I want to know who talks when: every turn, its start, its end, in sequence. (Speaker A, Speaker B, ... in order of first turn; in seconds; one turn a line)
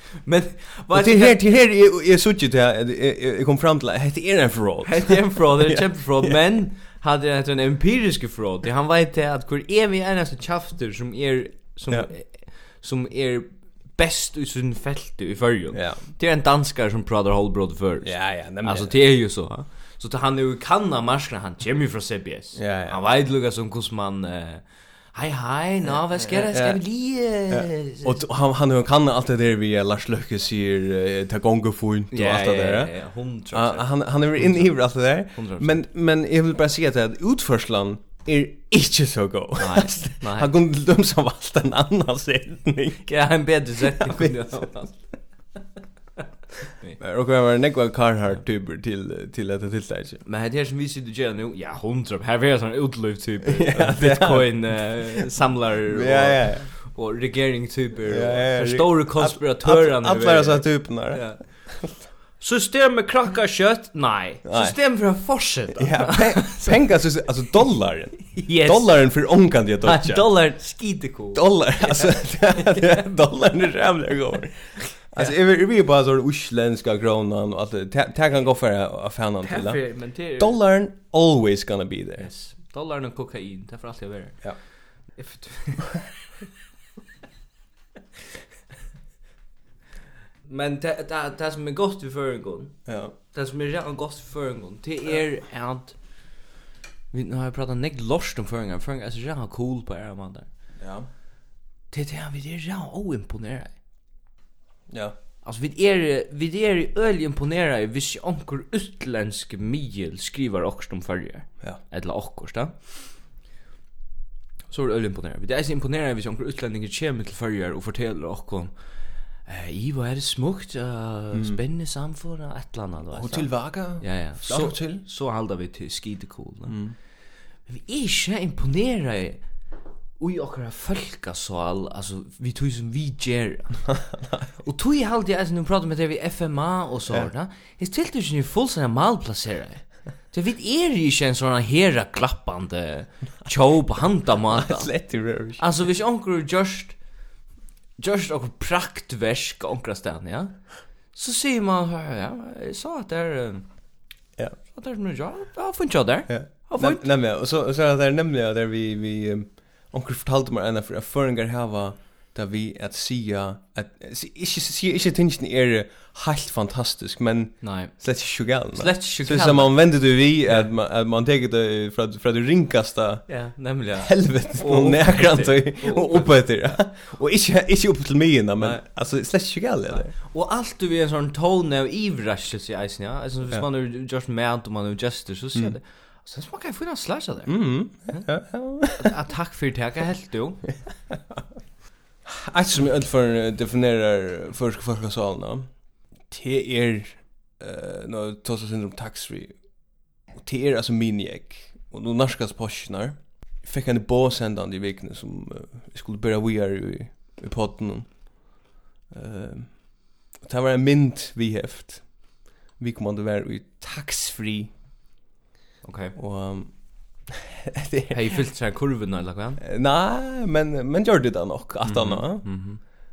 Speaker A: 0.2-1.4
Speaker B: 0.9-6.4
Speaker A: 4.8-28.1
Speaker B: 15.7-16.0
Speaker B: 18.0-18.9
Speaker B: 22.6-23.0
Speaker B: 25.9-32.9
Speaker A: 32.1-35.8
Speaker B: 33.5-43.1
Speaker A: 39.6-40.5
Speaker A: 43.1-45.0
Speaker B: 43.9-44.3
Speaker B: 47.0-50.2
Speaker A: 50.2-61.8
Speaker B: 53.5-56.7
Speaker B: 58.1-61.9
Speaker A: 62.4-66.8
Speaker B: 64.5-64.8
Speaker B: 65.8-70.5
Speaker A: 68.3-69.0
Speaker A: 69.8-73.1
Speaker B: 71.3-82.3
Speaker A: 75.0-75.3
Speaker A: 79.4-80.6
Speaker A: 82.2-84.4
Speaker A: 85.1-85.9
Speaker A: 90.5-92.8
Speaker B: 92.9-93.1
Speaker A: 93.3-96.0
Speaker A: 97.1-100.5
Speaker B: 100.8-101.1
Speaker A: 101.9-103.7
Speaker B: 104.9-105.2
Speaker A: 105.4-112.7
Speaker A: 114.7-118.8
Speaker A: 119.4-126.8
Speaker B: 121.3-121.6
Speaker B: 123.1-125.0
Speaker B: 126.7-127.0
Speaker A: 127.7-129.4
Speaker A: 130.2-133.9
Speaker B: 133.9-134.5
Speaker A: 134.6-147.0
Speaker B: 144.5-145.6
Speaker A: 148.0-153.7
Speaker A: 154.7-157.1
Speaker B: 156.3-180.1
Speaker A: 167.6-168.2
Speaker A: 168.7-170.7
Speaker A: 173.3-176.8
Speaker A: 178.6-178.8
Speaker A: 179.9-190.7
Speaker B: 187.5-189.1
Speaker B: 192.2-195.7
Speaker B: 196.2-199.6
Speaker B: 200.3-208.6
Speaker B: 209.1-214.7
Speaker A: 215.8-216.2
Speaker B: 216.2-218.3
Speaker A: 218.1-219.6
Speaker B: 219.6-222.5
Speaker A: 221.8-222.8